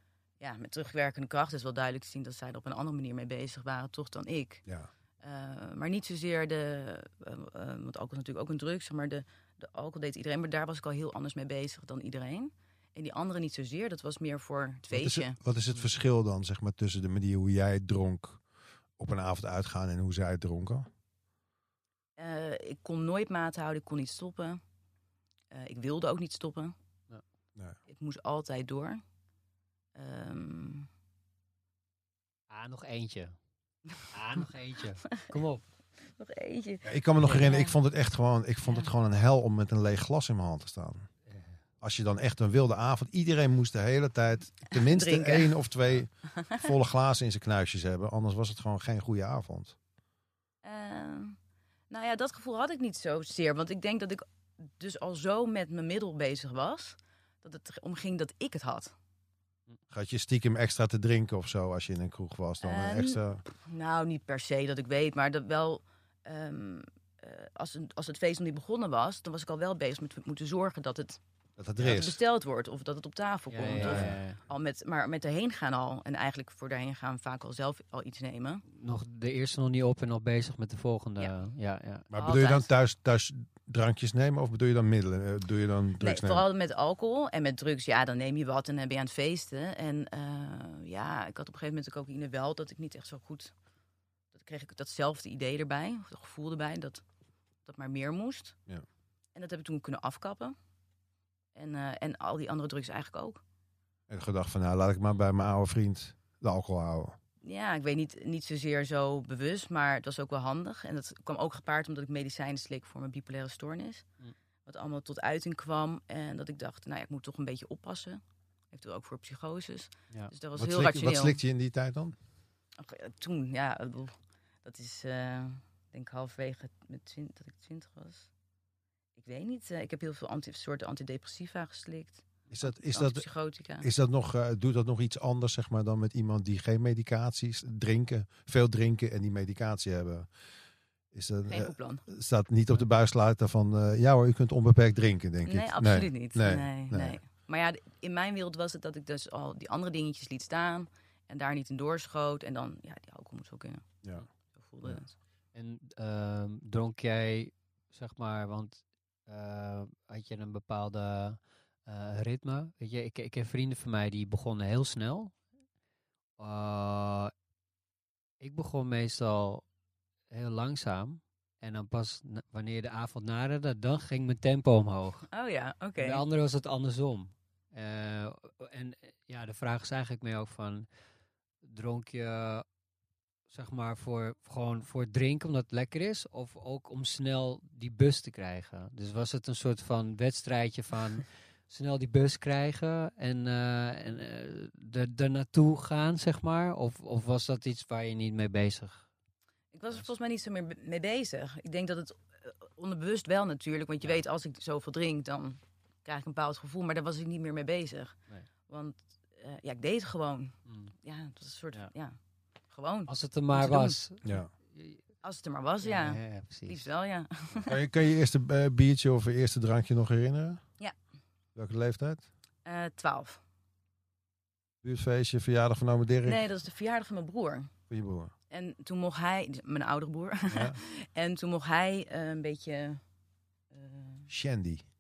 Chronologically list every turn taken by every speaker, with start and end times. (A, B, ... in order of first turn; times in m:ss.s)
0:00.4-0:04.6 A
0:05.2-0:15.4 A
0:14.9-0:18.4 B
0:19.0-0:20.9 B
0:22.2-0:24.6 A
0:25.5-0:26.8 A
0:27.9-0:29.0 A
0:30.0-0:30.9 A
0:32.5-0:33.3 C
0:34.1-0:35.6 C
0:35.0-0:35.3 A
0:36.1-0:37.8 A
0:36.8-0:41.1 B
0:37.2-0:37.5 C
0:41.3-0:41.6 C
0:41.8-0:49.8 B
0:44.7-0:45.6 A
0:46.4-0:46.6 A
0:50.6-0:51.4 A
0:51.9-0:58.9 A
0:59.9-1:03.4 B
1:02.6-1:11.2 A
1:11.6-1:12.2 B
1:11.8-1:18.6 A
1:13.5-1:14.4 C
1:13.8-1:14.2 B
1:18.7-1:22.1 C
1:22.1-1:26.5 B
1:22.2-1:22.7 A
1:26.0-1:33.5 A
1:34.3-1:37.0 A
1:37.6-1:38.6 A
1:39.4-1:40.6 A
1:41.6-1:43.4 A
1:44.1-1:47.2 B
1:47.4-1:54.0 A
1:54.7-1:58.2 A
1:58.7-2:01.4 A
2:00.6-2:02.2 B
2:02.8-2:08.3 A
2:09.2-2:13.9 A
2:12.5-2:13.3 B
2:13.8-2:20.3 B
2:21.1-2:27.2 B
2:21.5-2:22.0 A
2:25.5-2:33.8 A
2:34.5-2:35.2 A
2:35.5-2:45.3 C
2:46.4-2:47.3 C
2:48.4-2:49.6 C
2:50.3-2:55.3 C
2:55.3-2:56.2 A
2:56.0-3:00.9 C
3:01.6-3:02.6 C
3:03.5-3:19.1 C
3:19.7-3:28.2 A
3:28.7-3:32.2 A
3:30.7-3:30.9 C
3:32.7-3:34.0 A
3:33.1-3:35.0 C
3:34.2-3:34.5 B
3:35.2-3:37.8 A
3:35.8-3:36.9 C
3:37.7-3:40.6 B
3:41.6-3:42.3 B
3:42.6-3:43.4 A
3:44.8-3:46.4 B
3:46.2-3:47.7 A
3:47.9-3:48.3 B
3:48.5-3:53.0 A
3:50.5-3:50.8 B
3:53.7-3:54.3 A
3:54.3-3:54.9 B